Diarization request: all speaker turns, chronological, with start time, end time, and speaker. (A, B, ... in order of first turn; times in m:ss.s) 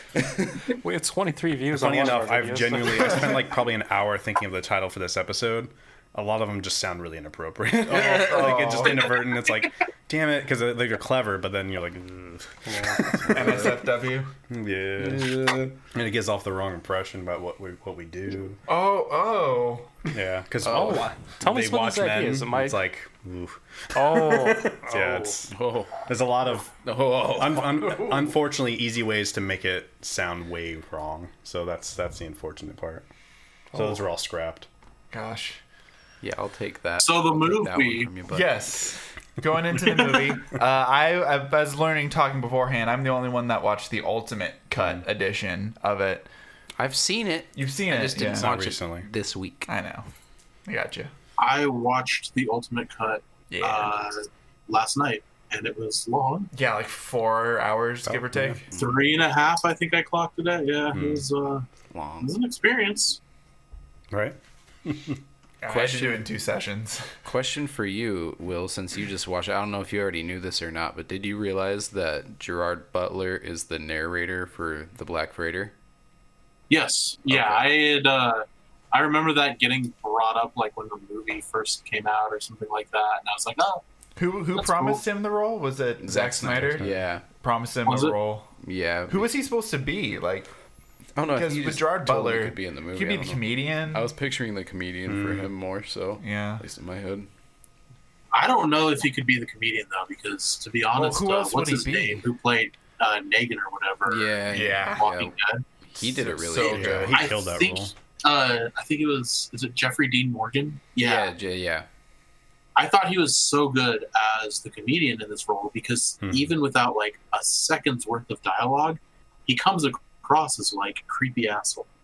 0:00.1-0:00.6 A
0:00.8-0:03.3 B
0:01.7-0:13.8 C
0:07.9-0:09.0 D
0:07.9-0:08.9 A
0:08.8-0:09.2 E
0:12.7-0:13.0 B
0:13.3-0:14.3 D
0:14.5-0:18.6 C
0:15.0-0:15.7 A
0:18.7-0:20.0 D
0:20.1-0:25.5 C
0:20.6-0:21.1 A
0:20.7-0:22.8 B
0:23.9-0:25.4 B
0:25.5-0:25.9 A
0:26.0-0:33.0 C
0:27.0-0:28.1 A
0:33.7-0:34.0 B
0:33.7-0:34.7 C
0:35.1-0:35.6 D
0:36.2-0:38.7 A
0:37.0-0:38.1 E
0:38.3-0:46.3 D
0:44.8-0:45.0 C
0:46.8-0:49.7 A
0:47.6-0:48.5 D
0:48.3-0:49.1 C
0:49.7-0:50.1 D
0:50.7-0:51.1 D
0:51.4-0:56.5 E
0:53.5-0:53.9 D
0:56.5-0:58.7 D
0:58.0-0:58.6 C
0:58.7-0:59.0 A
0:58.7-1:01.6 E
1:00.9-1:01.2 C
1:01.9-1:02.3 A
1:02.2-1:03.2 E
1:04.1-1:05.2 C
1:05.6-1:07.1 D
1:05.7-1:06.3 A
1:07.2-1:15.7 A
1:16.7-1:23.8 E
1:17.3-1:17.7 A
1:24.2-1:28.5 D
1:24.6-1:25.0 E
1:26.0-1:27.2 A
1:27.8-1:28.2 E
1:28.6-1:29.3 A
1:29.1-1:30.5 D
1:31.2-1:37.3 A
1:31.3-1:34.1 D
1:35.1-1:35.5 C
1:36.2-1:36.6 D
1:38.3-1:44.4 E
1:40.9-1:42.2 D
1:44.0-1:45.3 A
1:44.5-1:45.1 D
1:45.0-1:45.6 E
1:45.9-1:47.2 A
1:46.0-1:47.3 D
1:46.6-1:47.9 C
1:47.1-1:51.3 E
1:51.0-1:51.8 A
1:52.8-2:01.9 E
1:56.2-1:56.5 C